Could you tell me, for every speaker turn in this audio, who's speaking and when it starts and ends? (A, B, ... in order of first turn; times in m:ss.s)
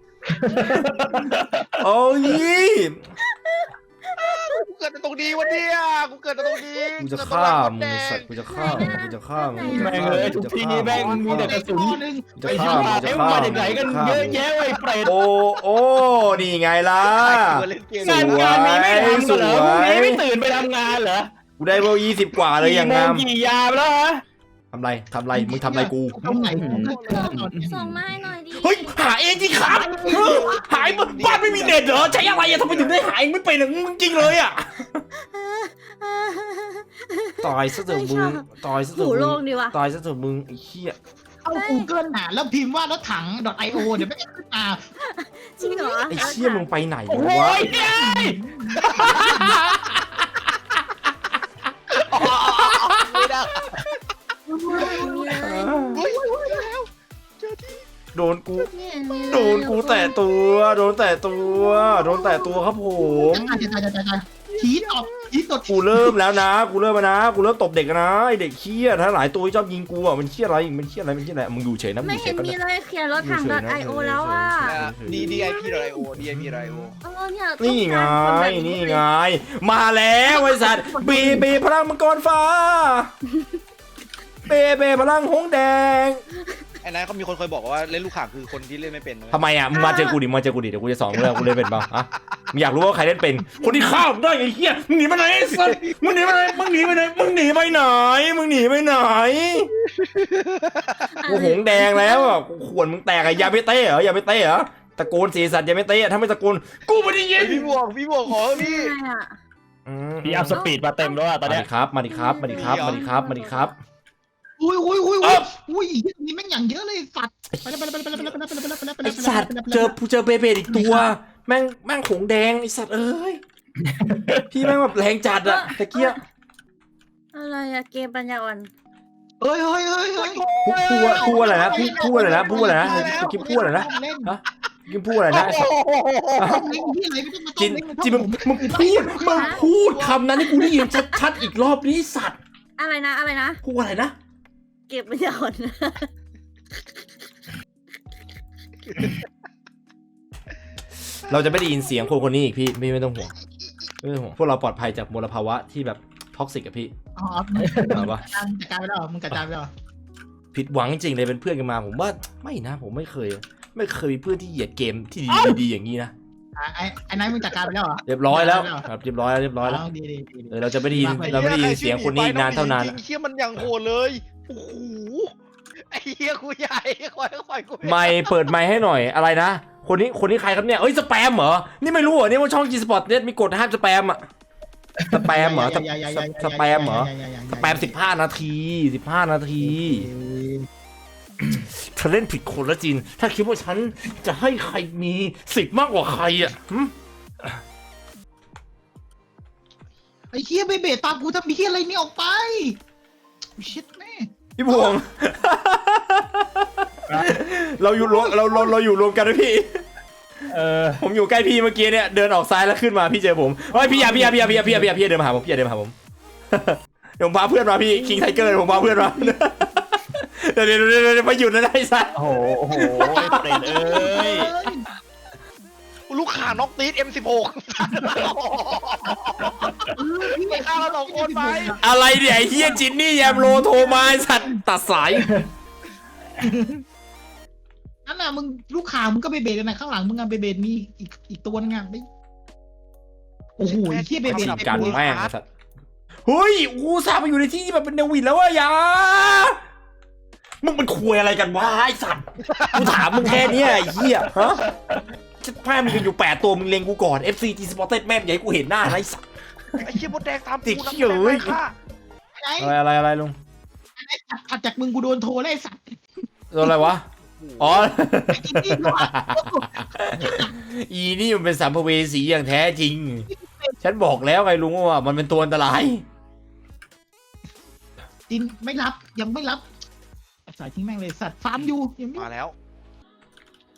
0:00.3-0:01.8 A
0:00.5-0:01.3 B
0:01.8-0:03.1 C
0:03.2-0:04.6 D
0:04.2-0:08.3 E
0:06.4-0:06.8 D
0:07.0-0:11.6 C
0:08.5-0:10.2 D
0:09.6-0:10.3 B
0:09.6-0:15.2 A
0:10.9-0:14.0 B
0:12.4-0:14.4 C
0:13.5-0:14.8 E
0:15.0-0:20.2 C
0:17.0-0:18.5 E
0:18.0-0:21.3 A
0:21.6-0:23.3 C
0:22.5-0:24.2 A
0:24.7-0:26.2 C
0:25.3-0:27.9 B
0:26.2-0:27.4 E
0:26.6-0:27.9 A
0:27.2-0:29.0 D
0:28.6-0:35.0 C
0:29.5-0:30.6 B
0:30.0-0:33.0 E
0:35.2-0:39.8 D
0:37.4-0:41.0 C
0:41.4-0:44.9 B
0:41.5-0:41.9 D
0:45.0-0:46.7 D
0:45.6-0:46.1 B
0:46.1-0:47.8 C
0:47.1-0:48.5 A
0:47.7-0:49.6 B
0:49.0-0:50.0 C
0:51.9-0:54.0 E
0:52.2-0:53.2 C
0:54.5-0:55.4 B
0:54.6-0:56.0 D
0:54.8-0:55.1 E
0:55.4-0:56.0 C
0:56.0-0:56.8 B
0:56.0-0:57.9 E
0:58.1-1:03.6 C
0:58.6-1:00.8 D
1:01.5-1:02.6 D
1:03.2-1:06.2 B
1:04.5-1:05.3 E
1:05.7-1:12.6 C
1:12.0-1:16.1 D
1:13.2-1:15.4 C
1:14.6-1:17.0 E
1:17.0-1:19.0 D
1:17.6-1:23.1 C
1:20.7-1:21.5 B
1:24.5-1:26.2 C
1:26.8-1:29.4 E
1:29.3-1:39.7 C
1:29.7-1:30.2 D
1:35.6-1:35.9 E
1:39.8-1:41.2 E
1:41.2-1:42.4 D
1:41.3-1:47.8 C
1:47.4-1:48.9 E
1:48.4-1:49.4 D
1:49.9-1:50.6 C
1:50.2-1:51.7 A
1:50.5-1:51.2 D
1:51.4-1:53.8 C
1:52.1-1:53.7 D
1:52.5-1:53.0 E
1:54.6-2:00.0 B
1:55.2-1:55.5 C
1:59.0-2:03.4 C
2:00.7-2:01.1 B
2:03.8-2:04.6 A
2:04.5-2:06.2 C
2:05.2-2:06.2 D
2:07.3-2:08.7 D
2:09.4-2:10.5 B
2:10.2-2:11.2 A
2:10.6-2:15.7 C
2:11.0-2:14.3 B
2:11.3-2:13.9 E
2:15.3-2:16.8 E
2:16.4-2:16.7 C
2:16.4-2:19.6 B
2:17.6-2:22.4 C
2:19.4-2:19.6 D
2:19.7-2:20.2 E
2:20.5-2:21.2 D
2:22.8-2:23.6 D
2:23.6-2:24.2 C
2:24.9-2:26.1 D
2:31.3-2:33.3 C
2:34.0-2:36.9 C
2:37.2-2:39.7 B
2:37.6-2:38.0 A
2:37.8-2:38.2 C
2:40.5-2:46.1 C
2:46.6-2:48.9 B
2:48.1-2:49.8 C
2:49.6-2:51.6 B
2:50.5-2:53.0 C
2:51.1-2:55.3 E
2:55.9-2:58.3 E
2:57.8-3:04.3 C
3:05.1-3:10.1 C
3:05.3-3:08.0 B
3:09.6-3:10.7 B
3:11.6-3:16.9 C
3:20.3-3:22.8 B
3:23.6-3:24.9 B
3:24.6-3:29.8 C
3:27.1-3:27.4 A
3:28.0-3:28.7 B
3:30.5-3:31.0 A
3:31.0-3:36.0 C
3:33.7-3:34.4 B
3:34.0-3:34.8 A
3:36.5-3:43.8 C
3:38.0-3:39.4 B
3:42.1-3:44.5 A
3:43.0-3:44.9 B
3:46.1-3:49.7 E
3:49.4-3:54.6 B
3:50.3-3:51.9 E
3:51.8-3:55.3 C
3:56.4-3:56.8 B
3:58.1-4:02.0 B
4:03.6-4:05.0 B
4:03.6-4:05.3 E
4:04.3-4:05.5 C
4:06.3-4:09.6 C
4:10.6-4:14.7 C
4:12.5-4:12.9 E
4:12.8-4:13.6 B
4:13.8-4:15.1 A
4:15.4-4:19.9 C
4:19.8-4:21.7 E
4:20.6-4:21.6 C
4:22.4-4:22.8 B
4:22.6-4:23.4 C
4:24.0-4:26.1 B
4:26.5-4:27.1 C
4:26.6-4:26.9 B
4:27.3-4:27.9 E
4:27.6-4:33.3 C
4:28.3-4:30.5 B
4:33.3-4:33.8 B
4:33.8-4:36.0 C
4:38.3-4:39.6 B
4:40.5-4:42.3 B
4:42.2-4:42.6 E